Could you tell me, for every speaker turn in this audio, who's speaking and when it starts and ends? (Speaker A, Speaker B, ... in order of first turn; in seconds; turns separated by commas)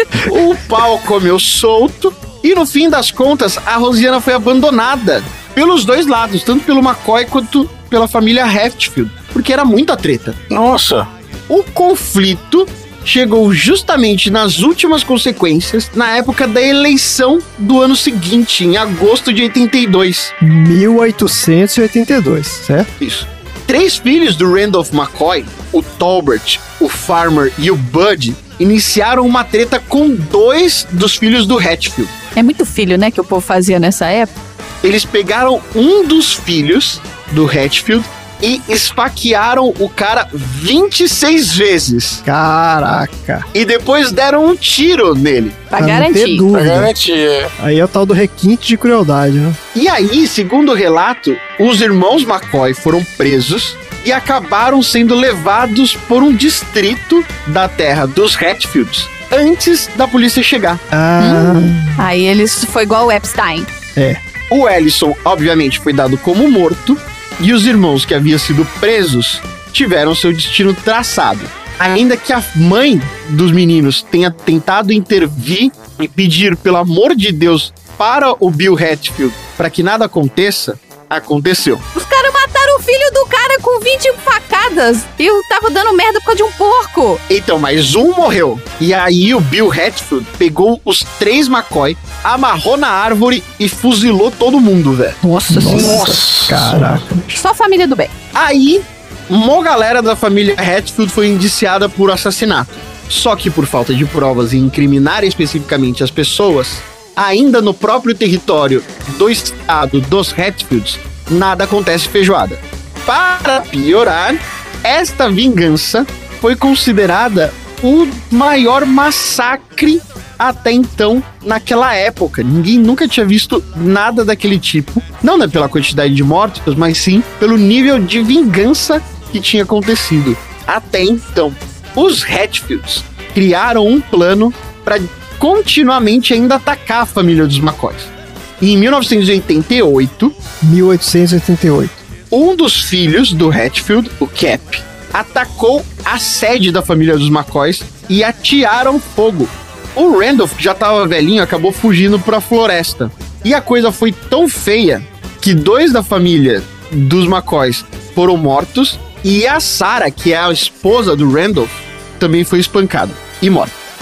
Speaker A: 0.2-10.4, Speaker B: 10.5-11.1, Speaker A: 11.5-20.3, Speaker C: 20.4-22.9, Speaker A: 23.0-32.1, Speaker D: 32.4-34.3, Speaker A: 34.8-42.2, Speaker C: 42.2-43.5, Speaker A: 43.5-45.6, Speaker D: 45.7-46.5, Speaker C: 45.8-46.9, Speaker B: 46.5-47.5, Speaker C: 47.6-49.6, Speaker A: 49.7-60.8, Speaker C: 60.9-62.0, Speaker D: 61.2-63.7, Speaker C: 64.0-64.2, Speaker A: 64.5-81.8, Speaker D: 82.0-87.2, Speaker A: 87.3-95.2, Speaker D: 95.3-96.0, Speaker C: 95.5-97.4, Speaker B: 95.7-96.9, Speaker D: 97.3-98.1, Speaker A: 98.3-140.4, Speaker C: 140.6-142.0, Speaker A: 142.3-163.7